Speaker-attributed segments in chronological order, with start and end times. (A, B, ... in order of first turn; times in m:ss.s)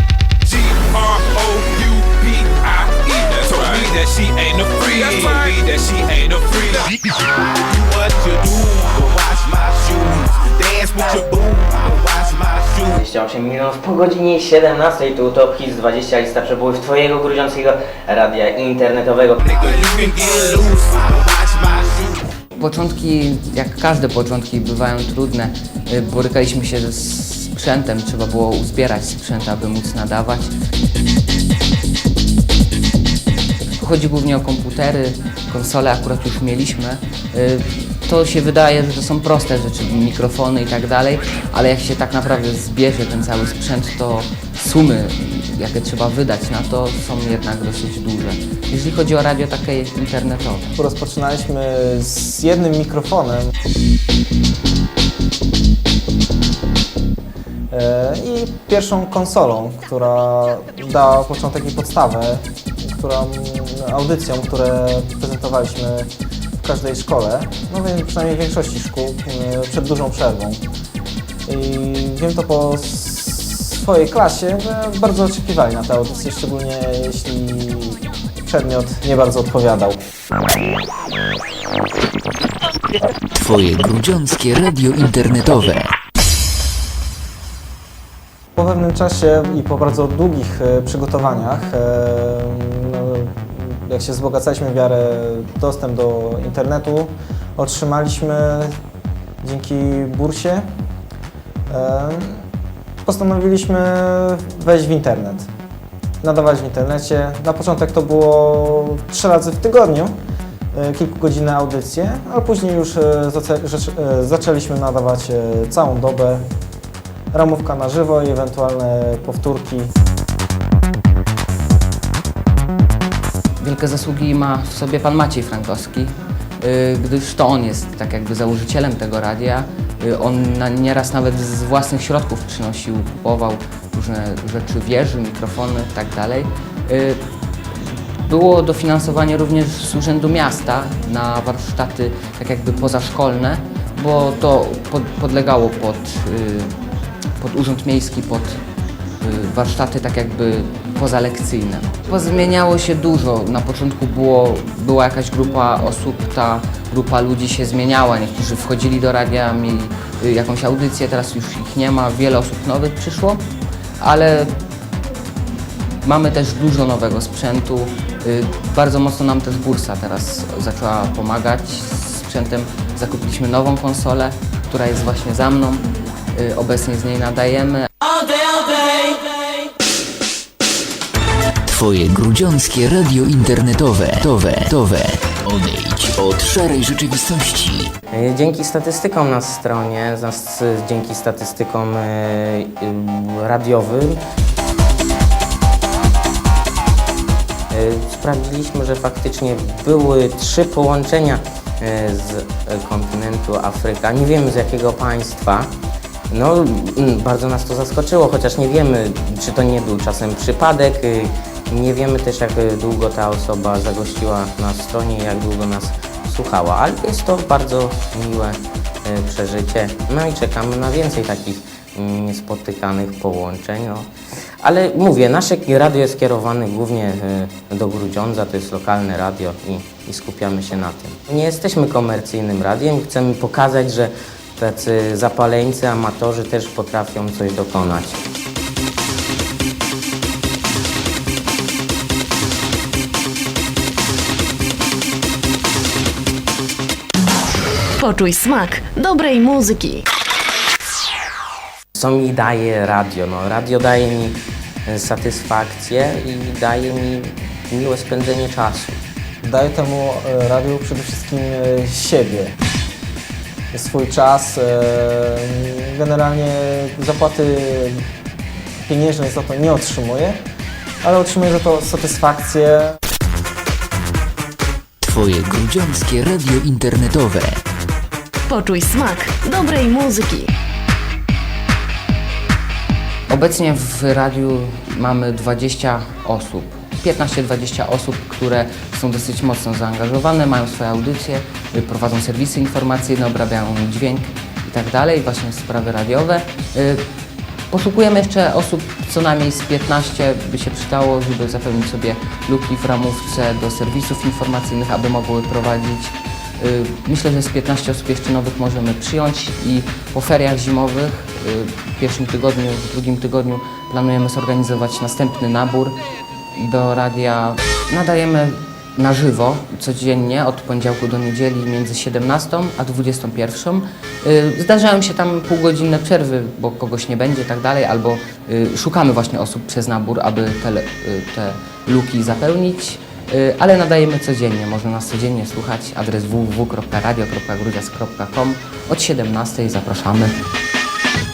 0:00.8-0:06.9 A
0:07.7-0:12.9 A
0:13.0-0:19.4 B
0:19.5-0:22.0 A
0:22.6-0:30.5 C
0:33.8-0:50.7 C
0:50.8-0:53.5 D
0:57.7-1:06.1 D
1:06.6-1:10.6 D
1:11.5-1:20.0 D
1:23.3-1:25.9 E
1:28.6-1:38.7 D
1:39.4-1:40.6 D
1:41.7-1:42.4 D
1:43.0-1:45.5 D
1:46.2-1:50.2 D
1:50.7-1:56.4 D
1:57.3-1:59.9 D
2:03.6-2:17.2 C
2:18.2-2:26.8 C
2:27.4-2:28.6 C
2:29.2-2:43.4 C
2:44.0-2:44.5 C
2:46.0-2:57.9 C
3:01.7-3:07.9 E
3:08.1-3:14.2 B
3:17.7-3:25.7 B
3:26.3-3:44.1 B
3:44.6-3:58.2 B
4:08.0-4:10.1 F
4:12.0-4:19.0 B
4:19.4-4:22.5 D
4:23.7-4:28.0 D
4:28.8-4:30.4 D
4:31.0-4:33.0 D
4:35.0-4:37.6 E
4:38.5-4:40.5 F
4:43.3-4:57.0 C
4:57.7-5:16.0 C
5:16.5-5:40.3 C